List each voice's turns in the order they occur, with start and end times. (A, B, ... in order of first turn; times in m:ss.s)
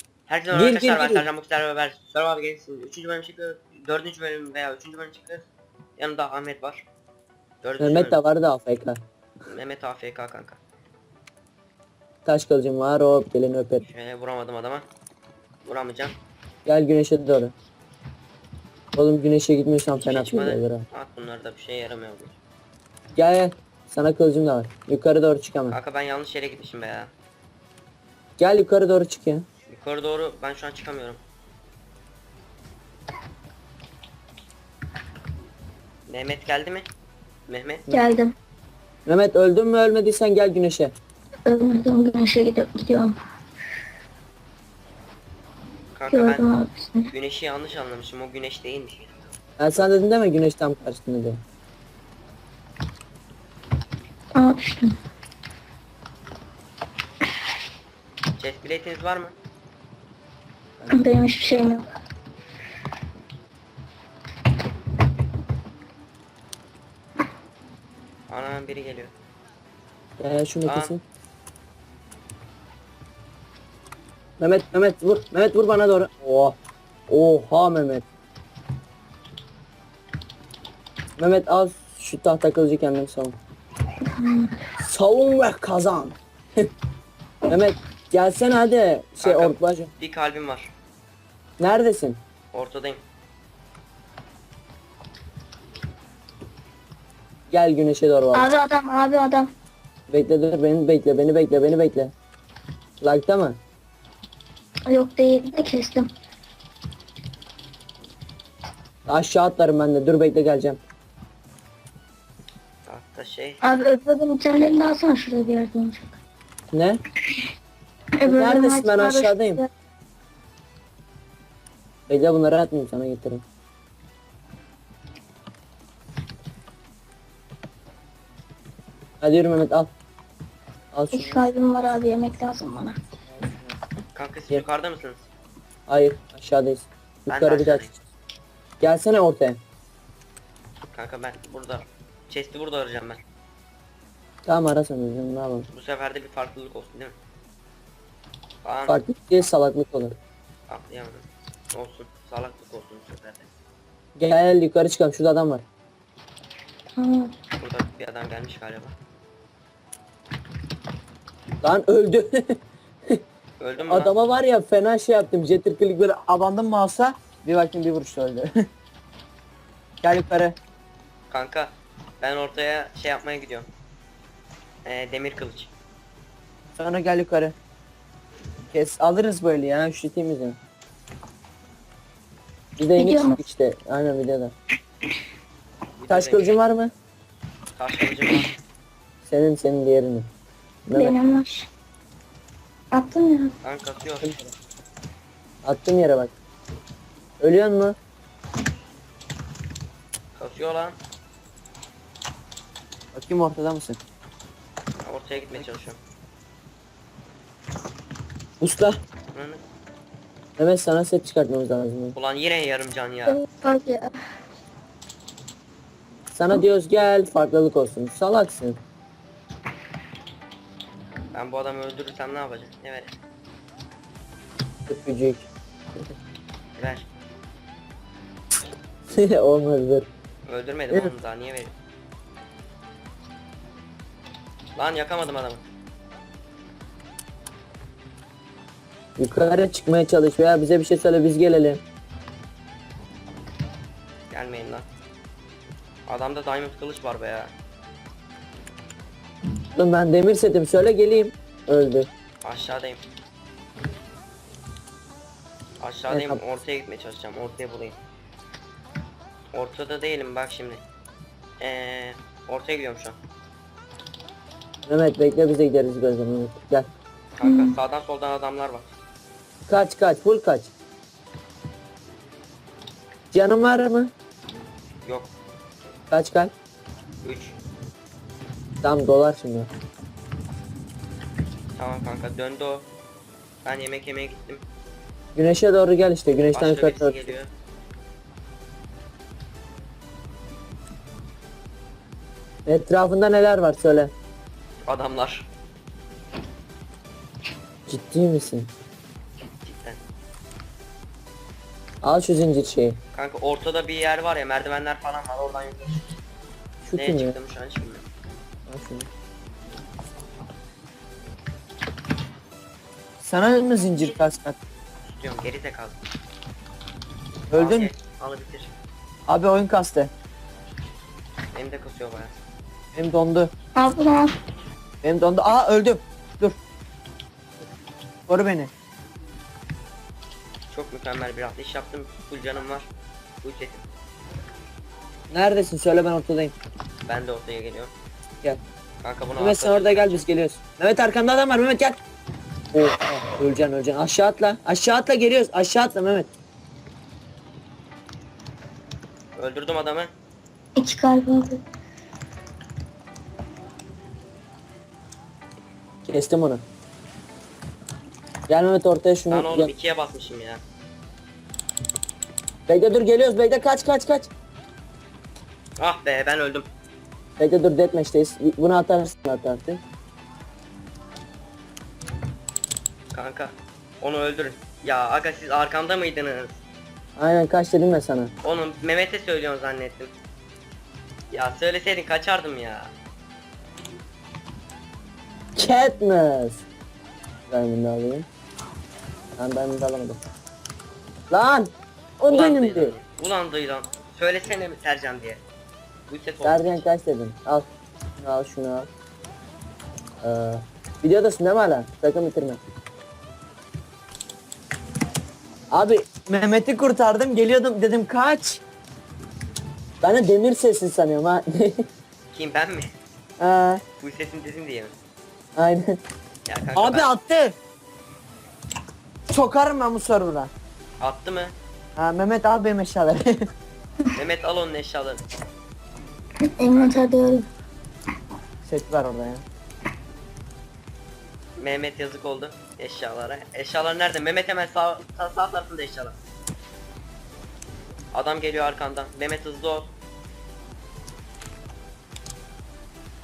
0:00.3-0:06.9 A
0:00.5-0:01.3 B
0:07.6-0:08.2 A
0:07.8-0:09.0 B
0:09.5-0:10.6 A
0:12.2-0:13.8 B
0:13.8-0:14.9 A
0:15.6-0:16.2 A
0:16.6-0:17.5 B
0:19.0-0:20.9 B
0:20.0-0:22.4 A
0:23.2-0:25.8 B
0:25.7-0:27.1 A
0:28.4-0:29.4 B
0:29.7-0:31.2 A
0:36.1-0:36.9 A
0:37.5-0:37.9 A
0:37.9-0:38.4 C
0:39.1-0:40.9 B
0:41.5-0:43.2 C
0:45.9-0:46.5 A
0:46.1-0:47.1 C
0:47.1-0:49.9 A
0:49.6-0:51.4 B
0:54.4-0:55.0 C
0:58.4-0:59.4 A
1:00.9-1:01.9 C
1:08.3-1:09.1 A
1:10.2-1:11.0 B
1:10.6-1:11.0 A
1:14.4-1:16.6 B
1:17.1-1:18.0 B
1:21.2-1:23.4 B
1:24.1-1:24.6 C
1:24.8-1:26.6 B
1:27.5-1:29.9 B
1:29.2-1:30.7 A
1:31.6-1:32.2 B
1:32.5-1:33.0 A
1:37.5-1:38.5 B
1:38.3-1:39.5 C
1:40.1-1:42.1 B
1:43.0-1:43.6 B
1:44.9-1:46.1 C
1:49.1-1:50.8 B
1:52.9-1:53.6 A
1:53.6-1:56.1 C
1:56.7-1:57.0 B
1:58.2-1:59.7 C
1:58.2-1:59.6 B
2:02.1-2:03.4 B
2:09.2-2:09.9 B
2:10.9-2:11.5 B
2:11.1-2:13.0 C
2:13.3-2:13.8 B
2:14.1-2:15.2 A
2:15.9-2:17.9 B
2:17.3-2:17.9 A
2:18.8-2:19.6 B
2:20.9-2:23.2 A
2:24.5-2:25.7 B
2:25.7-2:27.2 A
2:28.6-2:29.0 A
2:28.9-2:30.2 B
2:30.7-2:33.5 A
2:34.2-2:35.6 B
2:37.0-2:37.3 C
2:37.6-2:39.0 A
2:41.6-2:42.6 B
2:43.6-2:44.1 A
2:43.8-2:48.5 B
2:50.0-2:50.6 B
2:51.3-2:53.7 A
2:54.8-2:55.7 A
2:56.8-2:57.6 B
2:58.7-3:00.6 B
3:02.8-3:04.5 B
3:03.0-3:03.4 C
3:06.0-3:06.6 A
3:06.1-3:06.9 B
3:07.8-3:08.5 A
3:09.3-3:10.3 B
3:10.9-3:11.2 B
3:10.9-3:11.7 C
3:12.9-3:13.6 C
3:13.6-3:14.3 A
3:14.2-3:14.5 B
3:15.6-3:16.4 B
3:17.4-3:18.0 B
3:20.4-3:21.0 A
3:23.1-3:24.0 B
3:25.0-3:26.0 A
3:28.6-3:29.0 B
3:29.3-3:29.6 A
3:30.6-3:32.2 B
3:32.1-3:33.4 A
3:33.3-3:34.2 C
3:36.3-3:38.8 B
3:41.3-3:43.1 A
3:44.9-3:45.5 B
3:46.8-3:47.1 A
3:49.1-3:50.1 B
3:50.5-3:51.7 A
3:54.8-3:55.6 A
3:59.2-4:01.8 B
4:04.3-4:04.9 A
4:06.1-4:07.5 A
4:09.8-4:12.1 B
4:12.4-4:13.0 A
4:15.8-4:18.0 A
4:16.1-4:16.4 B
4:19.5-4:20.8 A
4:21.6-4:23.2 A
4:24.9-4:26.9 B
4:27.4-4:28.9 A
4:27.4-4:27.8 C
4:29.7-4:30.7 B
4:33.3-4:34.1 B
4:35.0-4:35.3 A
4:36.1-4:36.5 B
4:37.2-4:37.6 A
4:38.8-4:39.7 B
4:41.8-4:42.9 A
4:43.6-4:44.6 A
4:45.4-4:47.3 B
4:46.5-4:47.5 A
4:52.7-4:54.1 B
4:54.8-4:55.5 A
4:57.9-4:58.7 B
4:59.6-5:00.0 A
5:02.0-5:03.0 B
5:03.1-5:06.1 A
5:06.8-5:07.4 B
5:06.9-5:08.0 A
5:08.7-5:09.1 B
5:13.2-5:14.6 B
5:15.0-5:16.0 A
5:17.5-5:17.9 B
5:17.5-5:18.7 A
5:19.3-5:20.1 B
5:21.5-5:22.4 A
5:23.0-5:23.5 B
5:23.8-5:24.4 C
5:25.0-5:26.6 B
5:28.3-5:28.7 B
5:30.7-5:32.9 A
5:33.4-5:33.9 A
5:35.3-5:36.6 B
5:37.0-5:37.9 A
5:39.0-5:40.3 A
5:39.4-5:42.0 B
5:42.7-5:46.3 B
5:49.4-5:50.1 A
5:50.8-5:51.6 C
5:56.1-5:56.6 B
5:58.5-5:59.7 B
5:59.3-6:00.6 A
6:02.7-6:04.3 B
6:05.8-6:06.7 A
6:07.4-6:09.8 B
6:13.1-6:16.6 A
6:17.2-6:18.3 B
6:18.4-6:20.1 A
6:21.3-6:22.9 A
6:25.6-6:26.6 B
6:27.5-6:28.3 B
6:29.4-6:30.2 B
6:31.3-6:33.0 B
6:32.3-6:35.4 A
6:36.1-6:36.8 A
6:36.4-6:37.7 B
6:38.2-6:38.9 B
6:40.2-6:42.6 B
6:45.7-6:48.6 B
6:50.0-6:51.8 B
6:52.3-6:52.9 A
6:53.4-6:53.8 B
6:54.0-6:55.0 A
6:55.6-6:56.0 B
6:56.5-6:57.1 A
6:56.8-6:57.6 B
6:59.3-7:00.5 B
7:01.0-7:01.6 A
7:02.0-7:03.3 B
7:04.2-7:05.2 A
7:06.6-7:07.5 C
7:06.7-7:07.0 A
7:08.6-7:09.4 B
7:11.6-7:16.2 A
7:18.1-7:19.9 A